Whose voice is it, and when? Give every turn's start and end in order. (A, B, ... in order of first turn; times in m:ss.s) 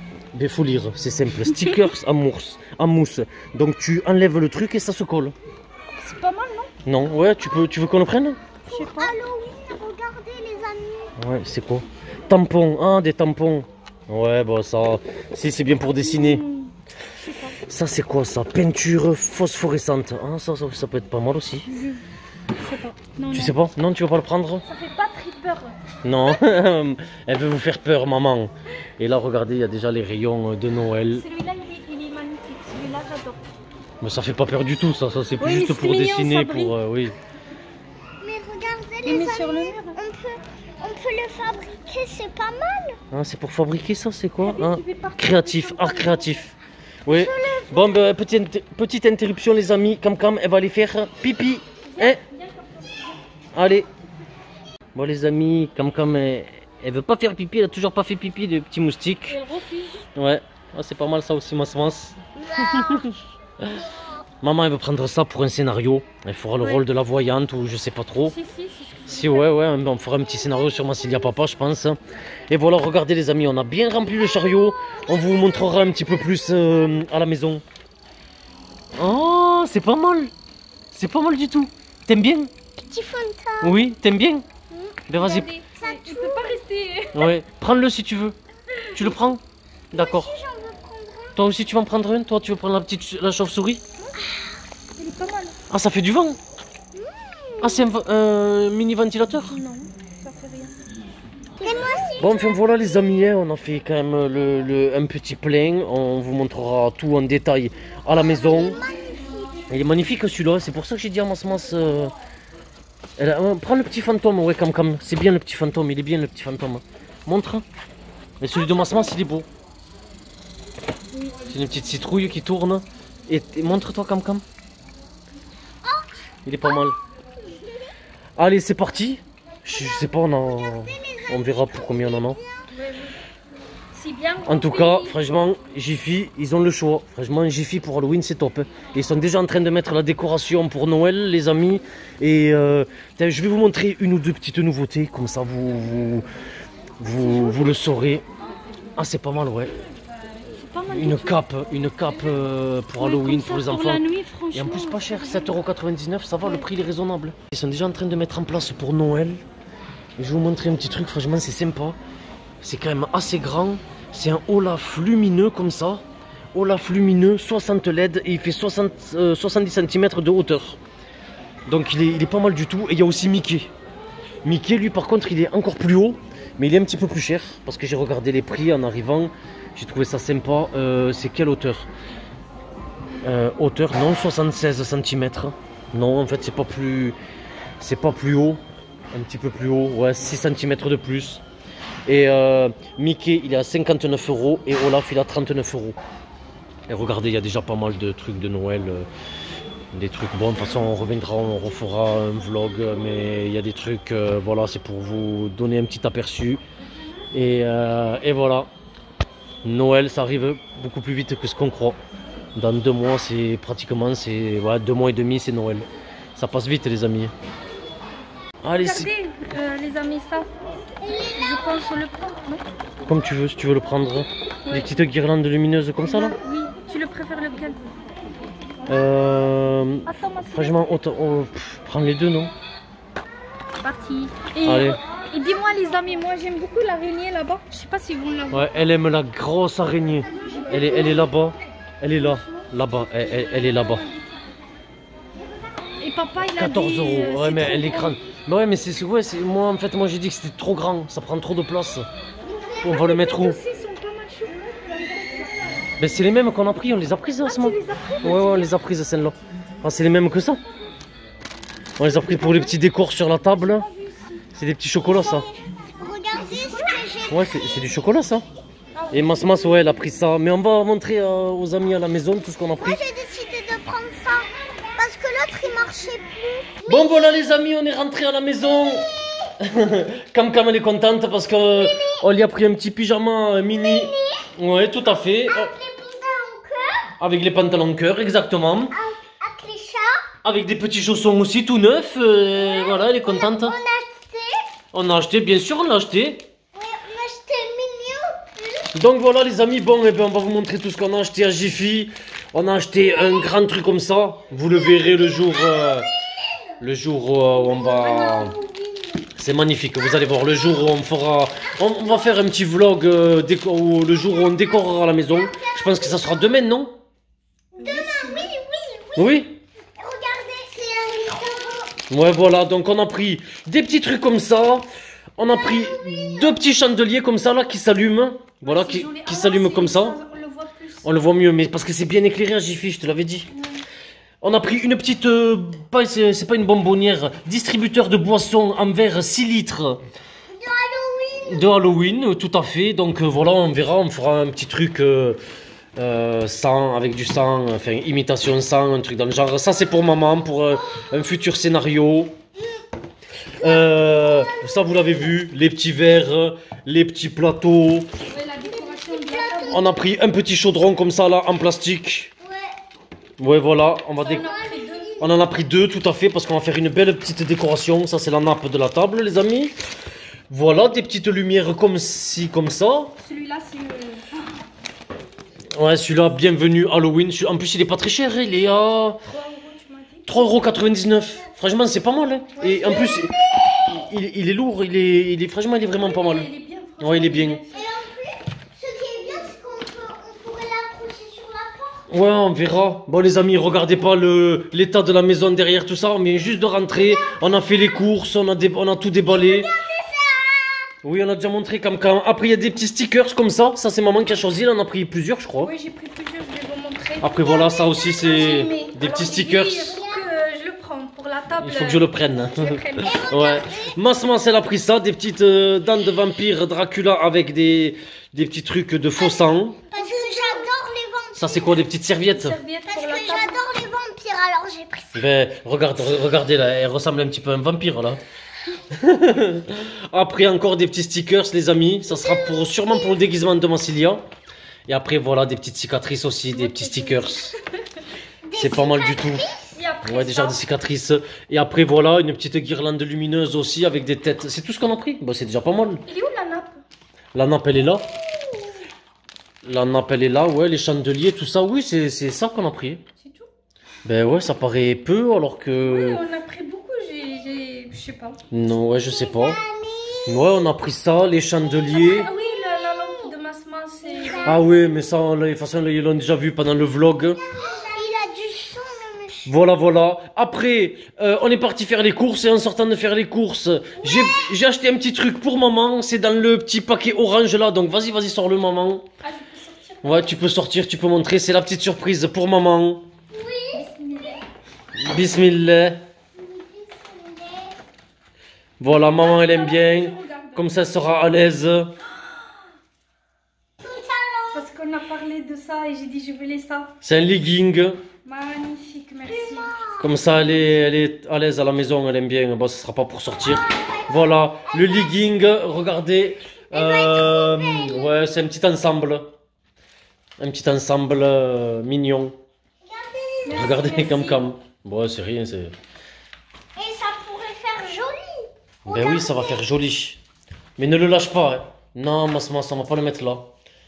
0:00.3-0:05.4 A
0:06.0-0:06.7 B
0:06.8-0:08.4 A
0:08.7-0:09.2 B
0:08.7-0:11.2 C
0:11.2-0:16.4 A
0:15.9-0:17.6 B
0:17.7-0:21.7 A
0:21.7-0:22.0 B
0:22.6-0:23.6 B
0:23.3-0:24.6 A
0:24.6-0:25.8 B
0:26.0-0:31.2 A
0:31.1-0:33.4 B
0:34.0-0:37.2 A
0:35.4-0:36.8 B
0:38.2-0:43.0 C
0:39.0-0:40.0 B
0:43.1-0:46.6 A
0:44.4-0:46.5 B
0:47.1-0:48.1 C
0:47.1-0:52.2 A
0:51.9-0:53.2 B
0:53.5-0:53.9 A
0:55.0-0:59.4 A
0:59.3-1:00.0 B
1:00.2-1:03.8 A
1:02.5-1:03.0 C
1:04.4-1:08.4 A
1:08.2-1:09.5 B
1:09.1-1:17.6 A
1:14.5-1:16.8 C
1:19.0-1:20.3 A
1:20.9-1:22.5 A
1:22.8-1:23.8 C
1:23.6-1:24.5 A
1:24.8-1:25.0 C
1:25.1-1:25.5 A
1:25.1-1:27.3 B
1:25.7-1:26.6 C
1:27.1-1:28.4 A
1:28.8-1:29.1 B
1:29.0-1:29.4 A
1:29.9-1:31.4 C
1:29.9-1:30.3 A
1:31.4-1:33.8 A
1:34.2-1:34.7 C
1:35.0-1:35.6 B
1:35.7-1:36.4 A
1:37.0-1:37.8 C
1:37.6-1:39.6 A
1:39.5-1:40.8 B
1:41.6-1:42.8 C
1:42.2-1:48.8 A
1:48.1-1:49.6 C
1:49.7-1:52.2 A
1:53.2-1:57.7 A
1:58.4-1:59.5 A
1:58.5-1:59.1 C
2:01.1-2:01.4 B
2:01.5-2:04.4 A
2:05.8-2:06.1 C
2:06.5-2:07.0 A
2:08.4-2:12.4 A
2:09.7-2:12.7 C
2:12.7-2:13.2 B
2:13.9-2:15.2 B
2:14.4-2:26.3 A
2:27.0-2:28.3 A
2:27.2-2:27.7 B
2:29.0-2:29.7 A
2:30.5-2:31.4 B
2:30.9-2:39.4 A
2:33.0-2:35.6 B
2:36.4-2:36.7 B
2:40.2-2:42.0 A
2:42.6-2:50.8 A
2:51.7-2:53.7 A
2:54.4-3:01.9 A
3:03.2-3:07.2 A
3:07.8-3:08.6 A
3:09.1-3:11.4 A
3:12.1-3:16.0 A
3:16.9-3:19.1 A
3:19.9-3:26.6 A
3:27.3-3:28.7 A
3:29.6-3:32.0 A
3:32.6-3:37.3 A
3:38.6-3:39.1 A
3:38.7-3:40.5 B
3:41.1-3:42.6 B
3:43.1-3:46.4 A
3:44.7-3:44.9 B
3:46.0-3:47.9 B
3:48.9-3:52.5 A
3:50.1-3:50.8 B
3:53.8-3:58.7 B
3:54.6-3:55.0 A
3:58.5-4:04.0 A
4:00.4-4:01.2 B
4:02.2-4:04.4 B
4:06.0-4:08.2 B
4:06.6-4:12.1 A
4:12.8-4:15.6 B
4:12.8-4:13.6 A
4:16.0-4:20.6 A
4:17.4-4:18.8 B
4:22.0-4:23.9 A
4:22.0-4:22.8 B
4:23.4-4:24.4 B
4:24.6-4:25.5 A
4:25.0-4:28.0 C
4:27.3-4:28.5 A
4:29.0-4:30.0 B
4:29.1-4:33.0 A
4:32.8-4:37.4 C
4:36.9-4:45.7 A
4:41.7-4:42.2 C
4:43.6-4:44.5 C
4:45.4-4:47.2 C
4:47.2-4:49.0 A
4:48.9-4:50.3 C
4:50.4-4:53.8 A
4:52.6-4:54.6 C
4:54.9-4:56.5 A
4:56.7-4:58.9 C
4:58.9-5:06.1 A
5:03.0-5:03.5 C
5:05.0-5:06.6 C
5:06.8-5:08.6 A
5:07.6-5:09.2 C
5:07.9-5:08.5 B
5:09.4-5:17.0 A
5:10.1-5:10.9 C
5:11.8-5:12.4 C
5:14.2-5:16.5 C
5:17.8-5:19.4 C
5:17.8-5:18.5 B
5:19.2-5:19.6 A
5:20.0-5:22.0 C
5:22.1-5:24.8 A
5:25.4-5:30.2 A
5:25.4-5:26.5 C
5:28.6-5:31.1 B
5:31.0-5:33.5 A
5:33.5-5:33.8 B
5:34.4-5:40.0 A
5:40.5-5:41.8 C
5:41.5-5:45.4 A
5:46.0-5:52.4 A
5:50.8-5:51.1 C
5:53.6-5:55.2 C
5:53.6-5:58.1 A
5:58.3-5:59.9 B
5:58.7-5:59.8 C
5:59.7-6:02.3 A
6:02.4-6:02.8 C
6:03.4-6:04.5 A
6:04.2-6:05.2 B
6:04.4-6:05.4 C
6:05.2-6:09.7 A
6:10.5-6:13.2 A
6:13.2-6:14.6 B
6:15.8-6:19.2 A
6:19.3-6:20.3 B
6:20.3-6:26.5 A
6:22.6-6:23.1 B
6:22.9-6:23.8 C
6:26.0-6:27.8 B
6:27.0-6:27.6 A
6:27.7-6:32.1 C
6:32.1-6:39.7 A
6:39.3-6:40.9 C
6:41.0-6:45.7 A
6:45.6-6:53.2 B
6:47.2-6:50.0 A
6:47.5-6:48.8 C
6:49.8-6:50.3 C
6:51.6-6:59.8 A
6:53.0-6:54.0 C
6:59.2-7:01.8 C
7:01.4-7:02.6 A
7:02.3-7:03.7 B
7:02.9-7:05.2 C
7:05.1-7:08.2 A
7:08.9-7:14.2 A
7:12.1-7:13.2 C
7:14.9-7:17.6 A
7:16.5-7:17.6 B
7:18.4-7:19.8 C
7:18.6-7:19.4 A
7:19.7-7:20.6 B
7:20.0-7:26.0 A
7:26.1-7:26.8 B
7:27.4-7:28.1 A
7:28.1-7:28.6 C
7:29.6-7:33.0 A
7:33.2-7:33.5 B
7:34.0-7:36.2 A
7:35.8-7:38.4 B
7:38.5-7:39.6 A
7:39.0-7:40.5 C
7:40.3-7:42.3 A
7:41.9-7:44.6 B
7:44.4-7:47.4 A
7:47.4-7:49.5 C
7:49.4-7:59.0 A
7:59.2-8:00.4 B
8:00.0-8:03.1 A
8:03.3-8:03.9 C
8:03.7-8:04.4 B
8:05.0-8:06.0 A
8:06.4-8:07.8 C
8:08.8-8:12.0 A
8:08.9-8:10.7 B
8:13.8-8:14.7 C
8:14.5-8:16.9 B
8:17.0-8:18.0 A
8:18.2-8:20.6 B
8:19.3-8:20.5 C
8:20.0-8:29.3 A
8:23.6-8:25.2 C
8:26.7-8:28.2 C
8:30.4-8:32.4 A
8:32.8-8:34.1 C
8:33.4-8:34.5 B
8:33.5-8:35.7 A
8:36.8-8:39.6 C
8:38.9-8:40.2 A
8:40.8-8:43.5 A